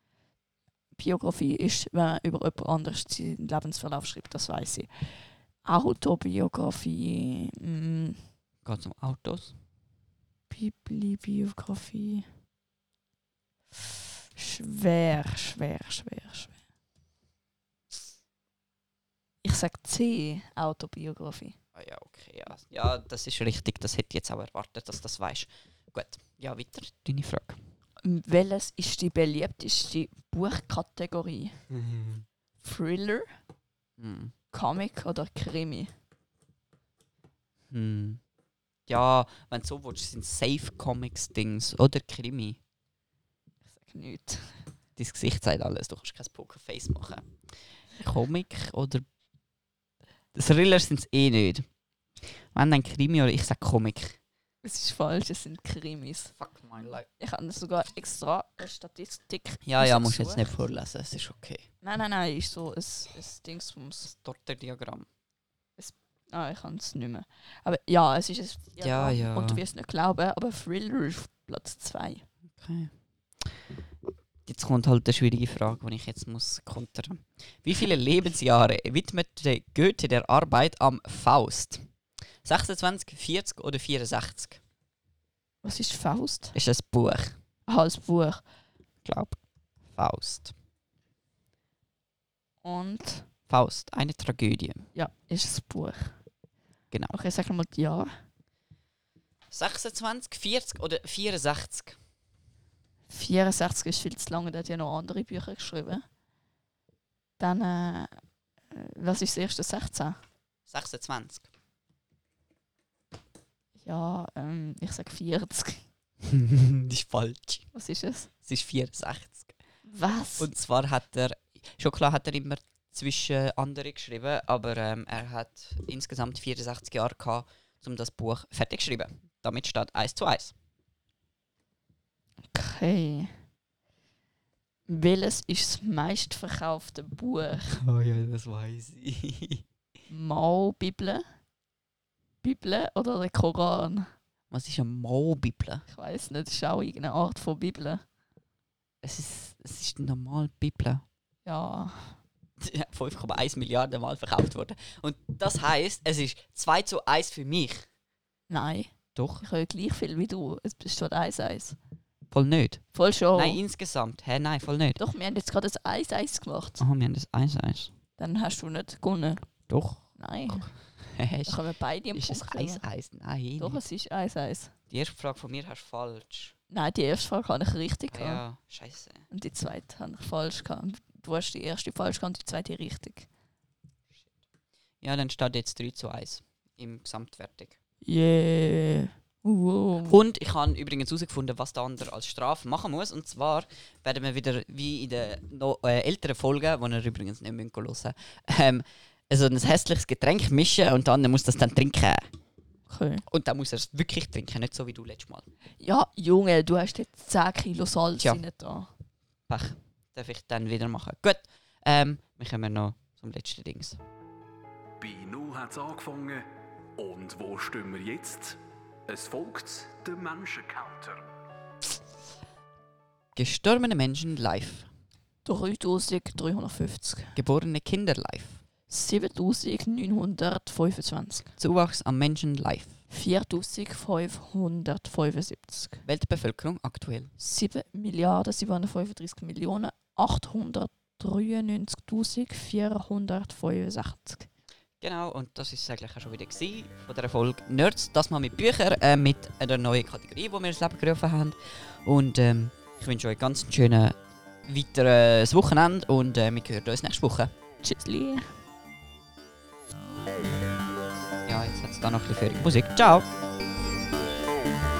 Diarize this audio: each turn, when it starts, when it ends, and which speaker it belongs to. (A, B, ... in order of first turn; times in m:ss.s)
0:00.9-0:08.3 A
0:08.6-0:09.6 B
0:10.5-0:12.3 A
0:14.4-0:16.6 A
0:19.4-0:21.6 A
0:21.8-0:27.6 B
0:28.0-0:31.6 A
0:31.7-0:32.2 B
0:32.6-0:33.4 A
0:34.0-0:34.3 B
0:34.5-0:35.9 A
0:37.7-0:38.2 B
0:38.9-0:42.6 B
0:43.7-0:44.7 A
0:45.0-0:49.1 B
0:50.3-0:54.2 B
0:54.6-0:56.5 A
0:56.4-0:57.1 B
0:57.1-1:00.5 A
0:59.6-1:01.7 B
1:01.8-1:04.1 A
1:04.0-1:05.1 B
1:05.8-1:12.3 A
1:08.8-1:09.6 B
1:12.6-1:13.6 B
1:14.4-1:24.6 B
1:25.6-1:26.6 A
1:26.5-1:27.4 B
1:27.7-1:28.5 A
1:29.0-1:30.5 B
1:32.6-1:33.3 A
1:33.5-1:34.9 B
1:34.9-1:36.3 A
1:37.1-1:38.3 A
1:39.5-1:42.0 B
1:43.1-1:46.1 A
1:47.4-1:50.2 A
1:50.6-1:51.5 B
1:53.8-1:55.9 A
1:56.8-1:59.8 B
1:57.7-1:58.3 A
1:59.9-2:00.5 A
2:00.4-2:10.6 B
2:12.5-2:13.4 A
2:14.9-2:17.8 A
2:17.8-2:19.6 B
2:20.1-2:21.4 A
2:22.4-2:24.1 A
2:24.5-2:25.8 B
2:25.9-2:28.0 A
2:29.0-2:31.0 B
2:31.4-2:32.2 A
2:32.6-2:37.9 B
2:38.5-2:41.8 A
2:39.1-2:39.4 B
2:42.3-2:45.0 B
2:42.9-2:43.6 A
2:45.0-2:46.8 A
2:46.8-2:47.9 B
2:48.2-2:52.9 A
2:49.7-2:53.8 B
2:53.6-2:54.8 A
2:54.9-2:56.6 B
2:56.7-2:58.5 A
2:58.1-2:59.3 B
2:59.3-3:03.3 A
3:04.2-3:04.4 B
3:05.0-3:07.8 B
3:08.0-3:10.2 A
3:10.1-3:22.3 B
3:22.9-3:23.2 A
3:23.3-3:25.5 B
3:25.8-3:28.9 A
3:28.2-3:28.5 B
3:29.5-3:34.0 B
3:35.0-3:41.3 C
3:43.3-3:44.9 B
3:45.4-3:47.4 A
3:47.4-3:48.6 B
3:48.9-3:51.5 A
3:51.6-3:53.0 B
3:53.1-3:56.0 A
3:56.0-3:57.3 B
3:57.4-4:04.5 A
4:05.0-4:17.5 B
4:17.8-4:18.6 A
4:21.4-4:23.3 B